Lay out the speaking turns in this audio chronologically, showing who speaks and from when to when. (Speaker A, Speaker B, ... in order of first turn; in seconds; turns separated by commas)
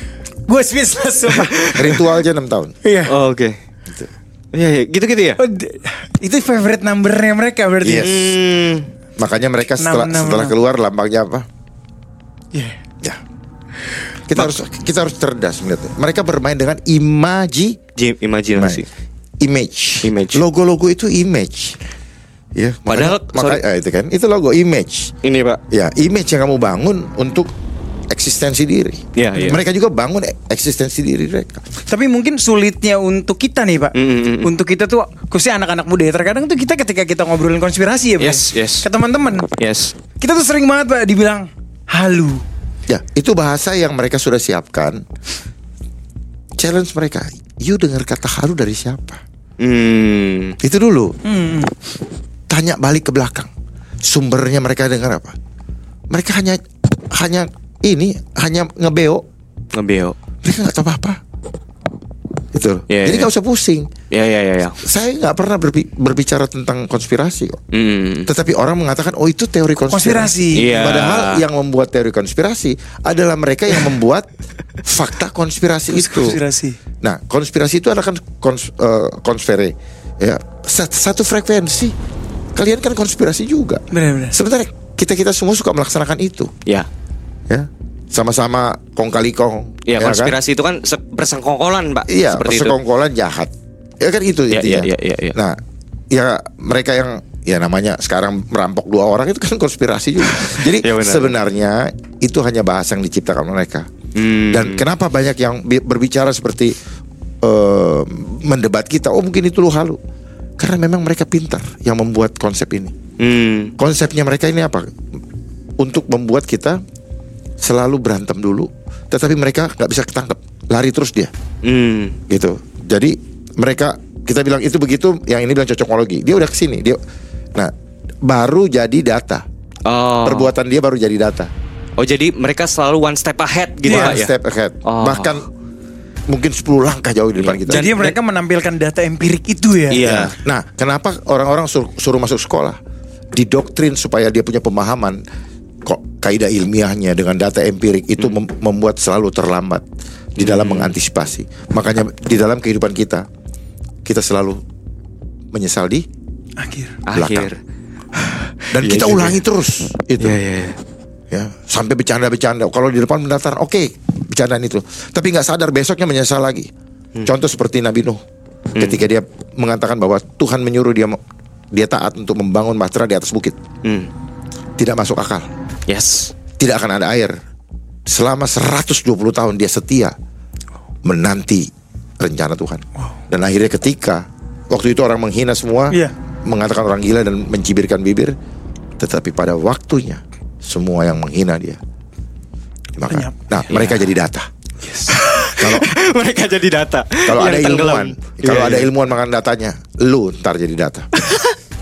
Speaker A: 0.5-1.8, Speaker B: 1.3-2.0, Speaker C: 1.7-2.7, Speaker A: 2.8-3.1, Speaker B: 3.1-3.6, Speaker B: 4.5-5.4, Speaker A: 5.4-8.1, Speaker C: 7.8-8.3, Speaker B: 8.0-8.9, Speaker C: 9.2-11.5, Speaker A: 9.8-10.6, Speaker C: 14.3-17.8, Speaker B: 18.0-18.9, Speaker C: 18.6-18.9, Speaker C: 19.4-21.8, Speaker B: 20.0-20.4, Speaker C: 22.6-25.1, Speaker B: 22.9-23.6, Speaker B: 25.2-25.6, Speaker C: 25.7-27.5, Speaker C: 28.1-31.6, Speaker B: 29.1-29.6, Speaker A: 31.9-39.5, Speaker B: 34.0-34.5, Speaker B: 38.2-38.9, Speaker B: 39.6-40.0, Speaker A: 40.2-42.4, Speaker C: 42.9-45.0, Speaker C: 46.6-49.2, Speaker B: 49.6-50.6, Speaker C: 50.6-51.2, Speaker A: 51.2-51.7, Speaker C: 52.5-53.5, Speaker C: 54.0-55.4, Speaker C: 56.1-59.2, Speaker B: 59.7-60.2, Speaker C: 60.4-61.2, Speaker C: 62.5-63.9, Speaker B: 62.9-63.3, Speaker B: 64.1-64.8, Speaker C: 64.8-67.6, Speaker B: 67.7-68.3, Speaker C: 68.3-74.3, Speaker A: 69.9-70.7, Speaker B: 70.5-71.5, Speaker C: 74.8-76.4, Speaker A: 75.9-76.8, Speaker C: 77.0-82.0, Speaker C: 82.5-86.5, Speaker A: 83.9-84.4, Speaker C: 87.5-90.4, Speaker B: 89.9-92.8, Speaker C: 92.1-103.9, Speaker B: 94.5-95.4, Speaker B: 100.3-101.4, Speaker B: 104.2-104.8, Speaker C: 104.5-106.8, Speaker C: 107.4-110.0, Speaker C: 110.6-113.0, Speaker B: 113.2-113.7, Speaker C: 113.8-114.9, Speaker C: 115.8-116.8, Speaker C: 117.6-121.3, Speaker B: 121.6-122.2, Speaker C: 122.3-127.0, Speaker C: 127.5-129.4, Speaker B: 129.9-130.5, Speaker C: 130.2-131.5, Speaker B: 132.0-134.3, Speaker A: 133.9-134.2, Speaker C: 133.9-135.5, Speaker B: 134.8-135.4, Speaker C: 136.3-137.9, Speaker B: 137.4-138.2, Speaker A: 137.7-140.0, Speaker B: 139.9-140.3, Speaker C: 140.0-142.8, Speaker C: 143.3-145.2, Speaker C: 145.8-149.8, Speaker C: 150.4-153.3, Speaker B: 150.4-150.9, Speaker C: 154.1-154.6, Speaker C: 155.5-156.1, Speaker A: 156.6-157.0, Speaker B: 157.1-157.6, Speaker C: 157.1-157.5, Speaker B: 158.2-159.4, Speaker C: 158.7-160.4, Speaker B: 160.2-160.8, Speaker C: 161.3-166.7, Speaker C: 167.3-168.2, Speaker B: 168.8-169.0, Speaker C: 168.8-171.2, Speaker C: 171.7-173.6, Speaker B: 173.8-174.1, Speaker C: 174.8-175.5, Speaker B: 175.9-176.3, Speaker C: 176.6-177.4, Speaker C: 178.1-180.2, Speaker C: 181.0-188.3, Speaker C: 189.0-191.8, Speaker C: 193.0-194.5, Speaker A: 193.1-193.3, Speaker B: 193.7-194.1, Speaker B: 195.0-198.9, Speaker C: 195.6-195.9, Speaker C: 197.2-201.1, Speaker B: 201.2-201.6